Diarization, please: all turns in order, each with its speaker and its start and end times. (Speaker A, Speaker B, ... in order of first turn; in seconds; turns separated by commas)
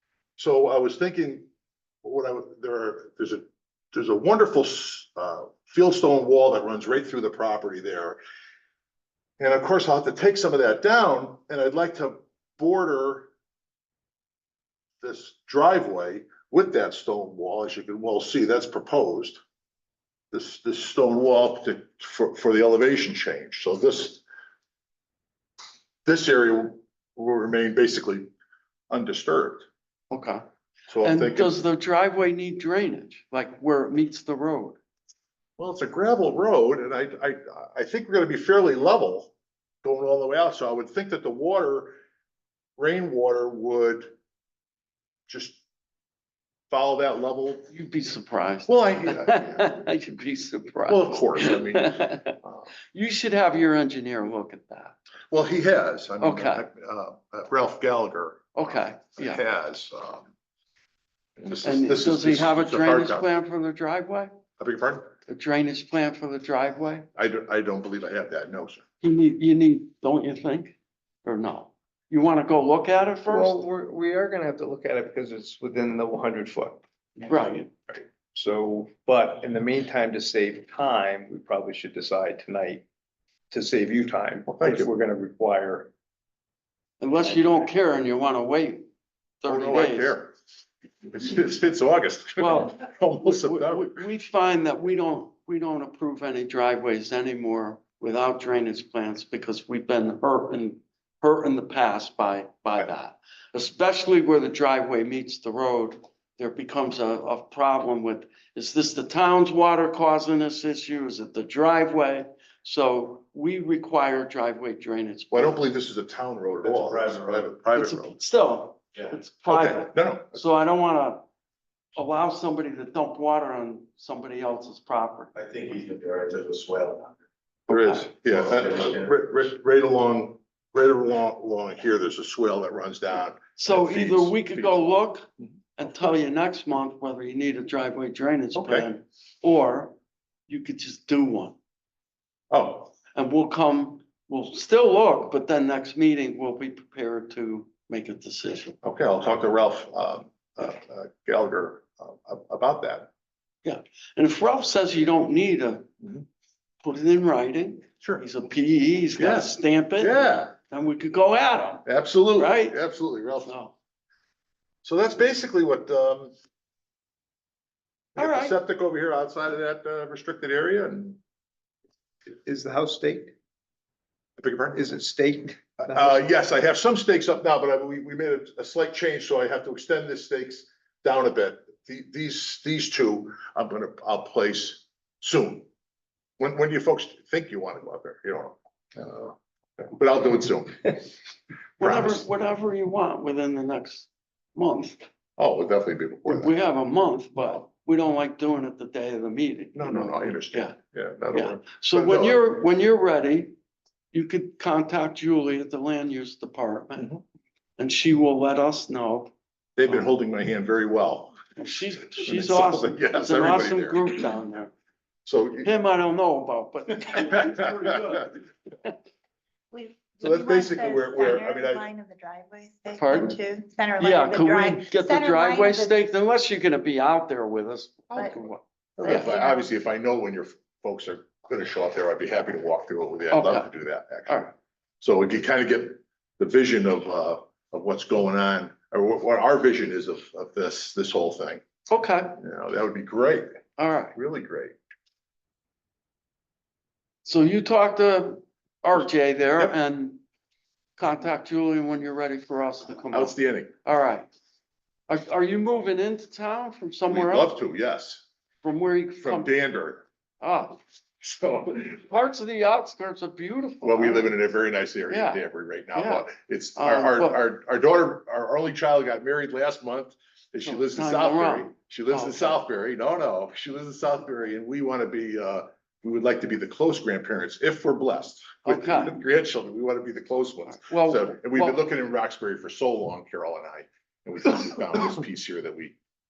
Speaker A: 0.4-1.4, Speaker A: 2.0-8.2, Speaker A: 9.4-13.3, Speaker A: 15.0-19.4, Speaker A: 20.3-24.2, Speaker A: 26.1-28.3, Speaker A: 28.9-29.7, Speaker B: 30.1-30.4, Speaker A: 30.9-31.6, Speaker B: 31.0-34.8, Speaker A: 35.6-39.3, Speaker A: 39.8-42.0, Speaker A: 42.8-44.1, Speaker A: 45.3-45.6, Speaker A: 46.7-47.7, Speaker B: 47.7-52.4, Speaker A: 48.7-49.7, Speaker A: 50.9-52.7, Speaker B: 52.9-54.9, Speaker A: 55.3-60.3, Speaker B: 56.2-56.6, Speaker B: 58.5-59.4, Speaker A: 61.4-63.3, Speaker B: 61.6-64.3, Speaker A: 64.6-65.1, Speaker B: 65.3-67.0, Speaker A: 67.2-68.8, Speaker B: 69.0-73.6, Speaker C: 73.2-76.8, Speaker B: 77.2-77.7, Speaker C: 77.9-82.8, Speaker C: 83.5-85.9, Speaker A: 84.5-84.8, Speaker B: 87.0-88.8, Speaker B: 89.4-90.2, Speaker A: 89.4-90.3, Speaker A: 91.1-94.0, Speaker B: 92.4-115.6, Speaker A: 115.3-118.1, Speaker D: 116.8-117.5, Speaker B: 117.7-121.2, Speaker A: 119.5-120.4, Speaker B: 122.0-125.3, Speaker D: 125.3-127.1, Speaker A: 127.7-134.9, Speaker D: 128.5-129.1, Speaker B: 133.6-139.9, Speaker A: 138.5-138.9, Speaker B: 140.5-141.6, Speaker A: 142.5-142.9, Speaker B: 143.1-148.8, Speaker A: 148.8-153.1, Speaker B: 153.6-155.9, Speaker B: 156.8-162.8, Speaker A: 159.2-160.5, Speaker A: 161.8-163.5, Speaker B: 163.4-163.7, Speaker A: 164.8-166.3, Speaker B: 168.2-168.6, Speaker A: 168.2-171.2, Speaker C: 172.4-173.3, Speaker A: 174.4-174.9, Speaker C: 174.7-176.2, Speaker A: 175.8-185.7, Speaker A: 186.4-191.1, Speaker B: 191.8-195.1, Speaker A: 191.8-192.2, Speaker A: 195.4-196.5, Speaker B: 196.3-200.8, Speaker A: 199.7-202.4, Speaker B: 201.3-203.5, Speaker B: 204.1-207.1, Speaker B: 207.8-209.3, Speaker A: 209.8-211.5, Speaker B: 211.6-214.7, Speaker A: 212.2-214.2, Speaker A: 215.2-215.7, Speaker B: 215.6-218.9, Speaker A: 217.1-217.6, Speaker E: 219.7-225.9, Speaker A: 220.2-221.8, Speaker B: 222.9-223.4, Speaker B: 224.0-229.3, Speaker A: 229.0-234.5, Speaker E: 229.0-229.6, Speaker B: 233.3-233.7, Speaker A: 235.0-241.6, Speaker B: 241.9-242.4, Speaker A: 242.4-243.4, Speaker B: 243.8-244.1, Speaker A: 244.1-244.8, Speaker B: 247.2-250.2, Speaker B: 251.0-254.3, Speaker A: 253.1-253.7, Speaker B: 255.1-257.5, Speaker A: 257.1-258.2, Speaker B: 258.6-259.5, Speaker A: 259.2-260.1, Speaker B: 260.4-260.8, Speaker A: 261.2-261.9, Speaker B: 261.8-264.3, Speaker A: 263.8-285.9, Speaker B: 265.1-265.4, Speaker B: 265.9-267.4, Speaker B: 270.6-272.6, Speaker B: 278.6-279.2, Speaker B: 280.7-281.8